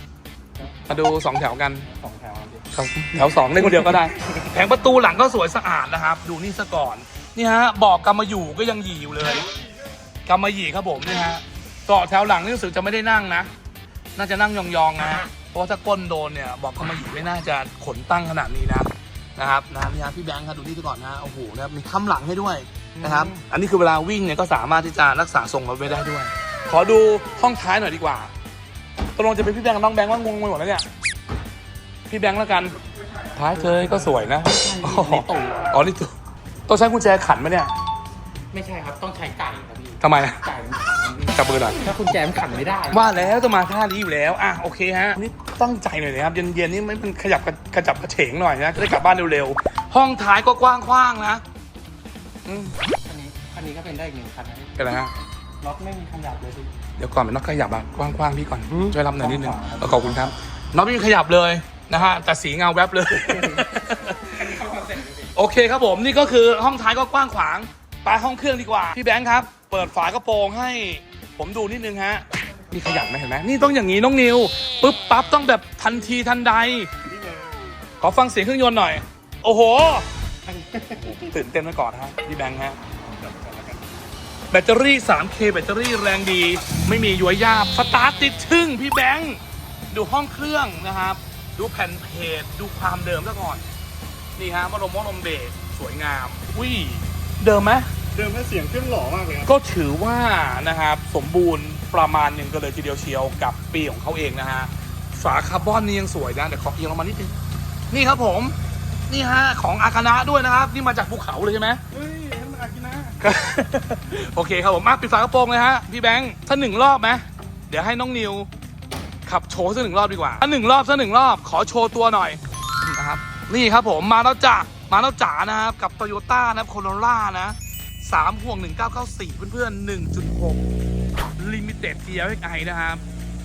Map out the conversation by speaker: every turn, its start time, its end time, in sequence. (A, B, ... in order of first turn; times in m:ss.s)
0:00.9-0:01.9 A
0:01.9-0:02.6 B
0:02.7-0:09.5 A
0:10.3-0:13.5 A
0:14.2-0:28.3 A
0:29.2-0:30.9 A
0:32.1-0:32.8 A
0:33.3-0:36.1 A
0:33.4-0:35.7 B
0:36.7-0:37.7 A
0:38.5-0:43.3 B
0:40.0-0:40.5 A
0:41.3-0:51.4 A
0:52.5-0:52.8 A
0:53.0-0:55.0 B
0:54.8-0:55.1 A
0:55.6-0:56.7 B
0:57.0-1:04.4 A
0:59.0-1:00.3 B
1:03.2-1:05.3 B
1:05.3-1:16.9 A
1:18.0-1:20.1 A
1:21.0-1:22.8 A
1:24.5-1:29.4 A
1:29.9-1:33.6 A
1:34.4-1:37.9 A
1:38.2-1:39.5 C
1:38.2-1:39.4 B
1:39.4-1:47.3 A
1:47.9-1:48.6 A
1:49.1-1:51.8 A
1:51.9-1:53.2 C
1:53.2-1:58.5 A
1:59.3-2:10.6 A
2:11.4-2:13.0 A